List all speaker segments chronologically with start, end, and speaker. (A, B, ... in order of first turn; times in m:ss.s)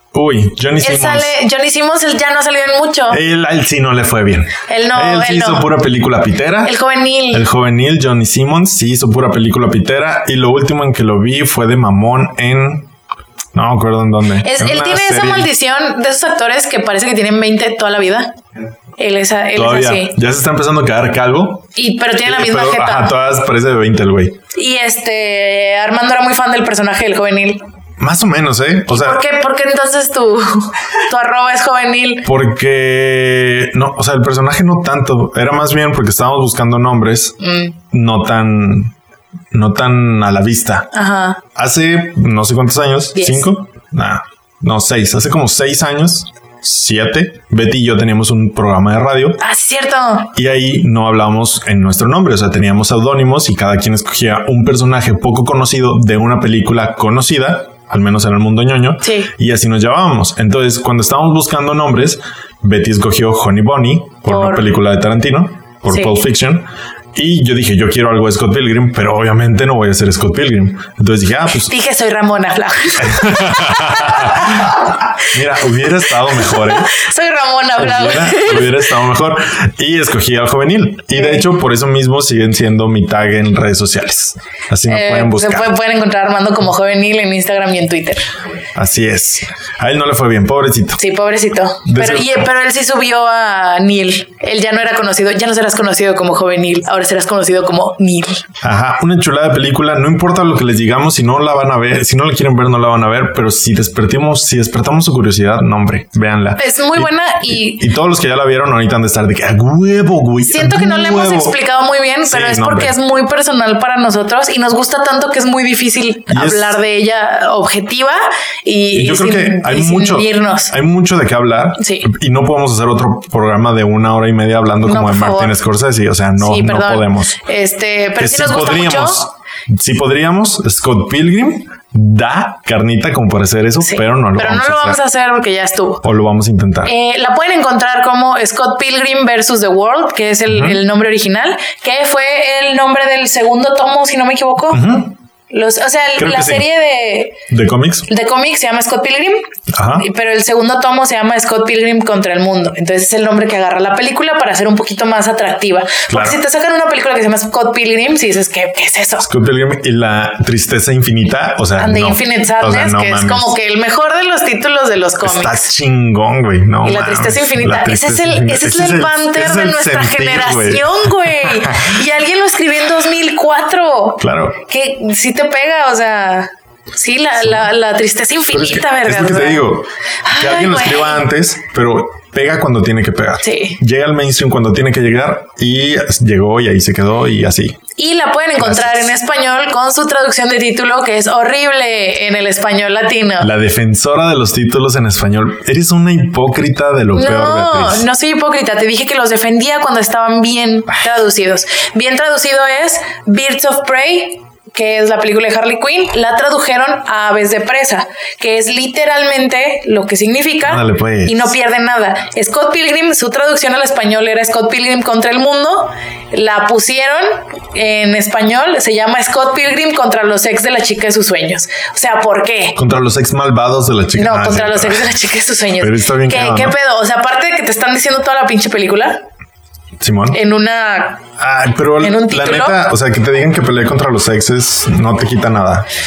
0:00.1-0:01.3 A
0:00.8-0:03.2 B
0:03.1-0:06.7 A
0:04.7-0:05.7 B
0:06.6-0:07.5 B
0:07.3-0:12.9 A
0:13.5-0:15.5 A
0:14.4-0:18.3 B
0:19.0-0:20.2 B
0:19.6-0:21.7 A
0:21.8-0:23.1 B
0:22.2-0:24.4 A
0:24.5-0:27.6 B
0:28.0-0:29.2 A
0:28.9-0:32.3 B
0:32.2-0:37.4 A
0:37.4-0:37.8 B
0:37.9-0:38.9 A
0:39.5-0:40.9 A
0:40.9-0:41.4 B
0:41.6-0:49.4 A
0:43.2-0:43.5 B
0:49.4-0:50.3 B
0:50.3-1:11.7 A
0:59.0-0:59.3 B
1:04.3-1:04.7 B
1:05.9-1:06.2 B
1:11.7-1:14.7 B
1:13.0-1:16.9 A
1:16.3-1:18.9 B
1:17.8-1:25.7 A
1:21.2-1:21.4 B
1:24.9-1:28.3 B
1:28.8-1:31.0 A
1:31.0-1:38.4 B
1:31.8-1:32.5 A
1:38.6-1:51.6 A
1:46.6-1:47.9 B
1:50.4-2:00.8 B
1:52.2-1:53.0 A
1:56.3-1:56.8 A
1:58.9-2:07.4 A
2:01.8-2:02.1 B
2:04.8-2:05.6 B
2:06.4-2:09.2 B
2:08.2-2:15.0 A
2:13.8-2:16.0 B
2:16.0-2:16.9 A
2:16.8-2:25.0 B
2:20.5-2:20.8 A
2:24.7-2:25.1 A
2:25.5-2:27.4 B
2:26.2-2:26.7 A
2:27.5-2:28.1 A
2:28.1-2:39.3 B
2:29.7-2:30.1 A
2:36.1-2:36.4 A
2:39.2-2:43.5 A
2:41.8-2:45.7 B
2:45.2-2:51.9 A
2:46.8-2:59.7 B
2:54.2-2:54.6 A
2:58.5-3:07.8 A
3:00.2-3:01.2 B
3:03.4-3:03.8 B
3:08.0-3:13.5 B
3:08.6-3:09.1 A
3:13.4-3:18.1 A
3:17.1-3:42.8 B
3:30.6-3:31.5 A
3:42.8-3:45.2 A
3:44.2-3:49.2 B
3:45.8-3:46.8 A
3:50.0-3:50.4 A
3:50.3-3:51.2 B
3:51.4-3:55.9 A
3:52.0-3:52.8 B